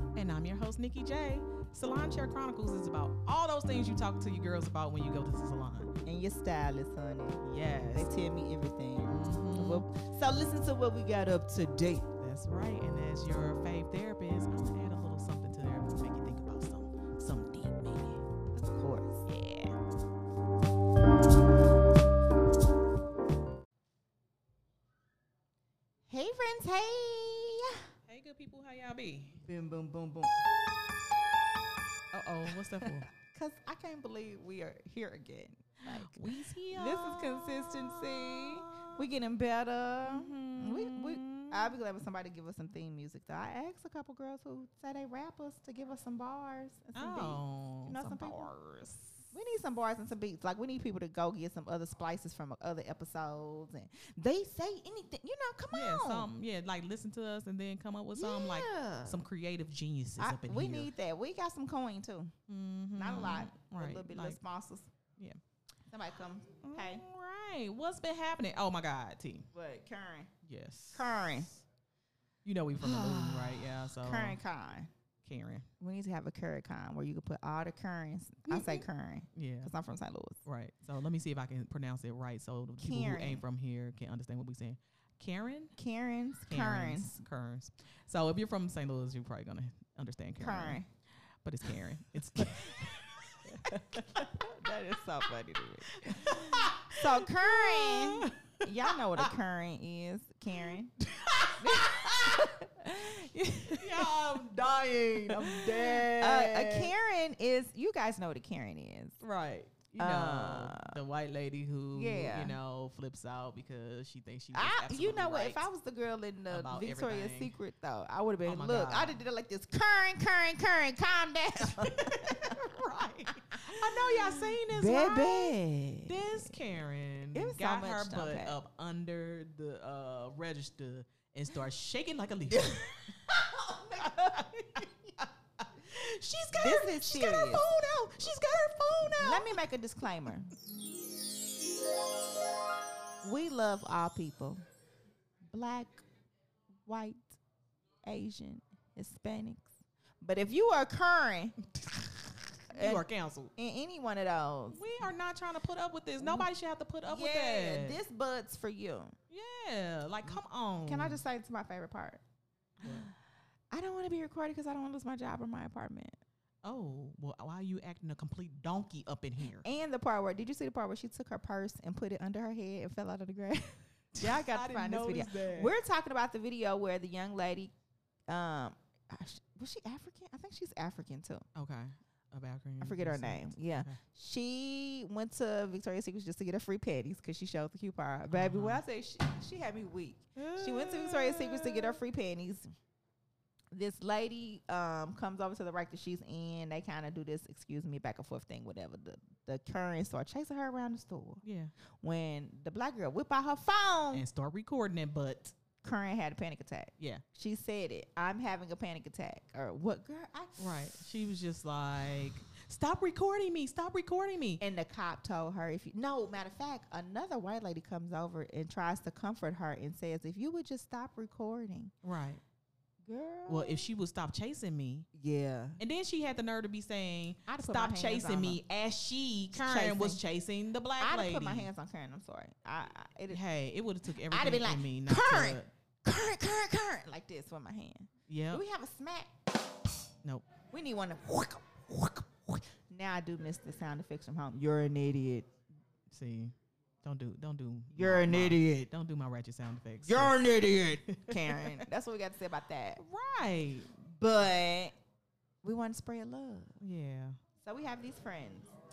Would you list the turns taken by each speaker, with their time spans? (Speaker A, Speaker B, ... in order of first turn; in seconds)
Speaker A: 0.1-6.0, 7.4-8.1, 9.1-9.8, 12.2-18.2, 19.3-19.7, 28.1-29.4, 32.1-33.1, 35.9-39.1, 40.1-41.8, 47.0-48.6, 55.7-60.9, 62.5-64.4, 66.7-69.5, 70.5-71.4, 72.5-74.4, 75.2-75.7, 78.5-79.7, 80.5-85.8, 86.5-90.8, 91.4-94.3, 95.9-99.3, 100.6-102.5, 103.7-106.9, 109.2-115.7, 116.5-117.5, 118.4-119.2, 121.7-133.0, 134.0-139.6, 152.7-153.5, 154.7-158.0, 159.3-161.2, 162.8-163.1, 166.6-169.7, 174.2-175.8, 181.6-184.0, 188.3-188.8, 190.4-192.0, 201.4-201.7, 204.1-205.6, 207.0-207.2, 210.6-214.6, 222.0-222.4, 223.5-225.1, 225.8-231.7, 233.3-235.7, 238.3-238.6, 246.1-250.4, 251.1-251.8, 253.0-253.9, 256.8-257.4
Speaker B: 6.0-12.1, 18.5-19.3, 26.1-27.8, 29.4-30.4, 33.1-56.3, 58.2-59.2, 60.2-62.3, 63.0-64.9, 65.9-67.0, 69.5-70.3, 70.9-71.6, 72.8-74.9, 75.8-80.4, 82.8-83.4, 85.8-87.2, 90.4-90.9, 92.4-92.8, 93.5-100.9, 101.6-104.1, 105.3-109.2, 110.0-111.0, 111.9-112.6, 114.5-122.8, 123.5-126.6, 127.3-128.6, 132.6-134.5, 136.6-138.3, 139.2-140.5, 143.2-144.6, 145.5-146.1, 146.9-147.4, 148.0-153.1, 153.6-154.8, 156.2-156.5, 157.1-159.2, 160.3-162.2, 163.7-166.2, 169.6-177.7, 178.3-181.4, 182.8-192.7, 193.7-201.4, 202.0-204.2, 205.8-210.7, 214.6-221.9, 223.1-223.9, 225.2-225.8, 227.5-228.6, 229.5-230.2, 231.0-233.4, 234.3-239.3, 240.7-245.5, 247.9-248.9, 250.1-253.0, 254.1-254.9, 255.6-256.8, 257.6-258.7